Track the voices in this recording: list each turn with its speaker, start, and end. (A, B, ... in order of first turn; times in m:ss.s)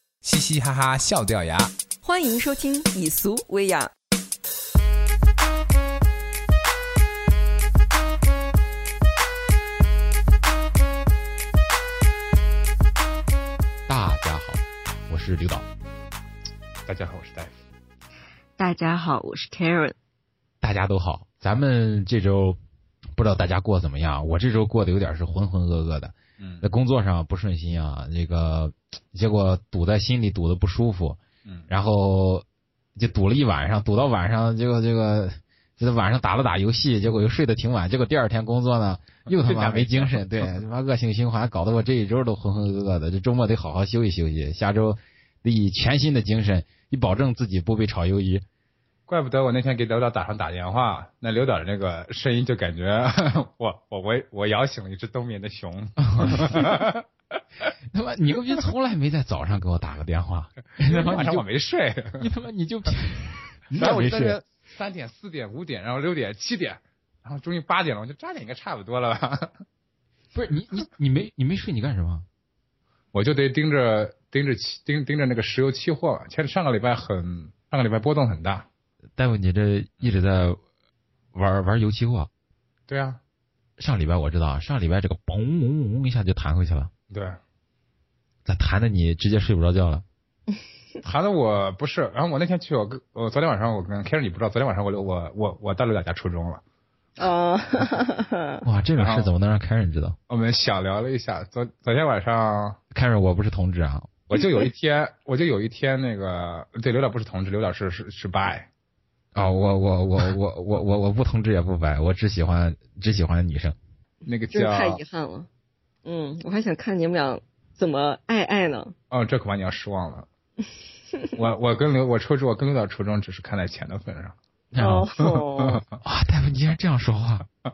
0:00.2-0:01.7 A
0:02.0-0:03.9 B
0:13.9-0:15.7 C
0:16.9-0:17.6 A
0:18.6-0:20.0 B
0:20.6-0:22.6 C
0:23.2-0:32.4 C
0:26.4-0:26.7 A
0:33.0-0:48.4 C
0:39.3-0:40.3 A
0:49.1-0:57.0 A
0:56.0-0:56.9 C
0:57.9-1:01.4 C
1:00.8-1:02.3 A
1:02.2-1:04.4 C
1:03.7-1:09.6 A
1:10.3-1:12.3 C
1:13.1-1:18.7 A
1:19.2-1:20.6 C
1:21.3-1:22.3 C
1:22.9-1:23.2 A
1:23.8-1:26.9 C
1:27.1-1:27.4 A
1:28.5-1:30.0 C
1:31.0-1:36.6 A
1:37.2-1:38.6 B
1:38.6-1:40.2 C
1:39.0-1:39.3 A
1:40.3-1:42.8 A
1:42.9-1:44.1 C
1:44.3-1:48.7 A
1:49.4-1:53.8 C
1:54.2-1:55.0 A
1:54.5-1:55.5 B
1:56.0-1:58.9 B
1:59.1-2:00.3 A
2:01.4-2:04.4 A
2:04.7-2:05.1 C
2:04.8-2:05.8 B
2:05.6-2:05.8 A
2:06.0-2:07.5 C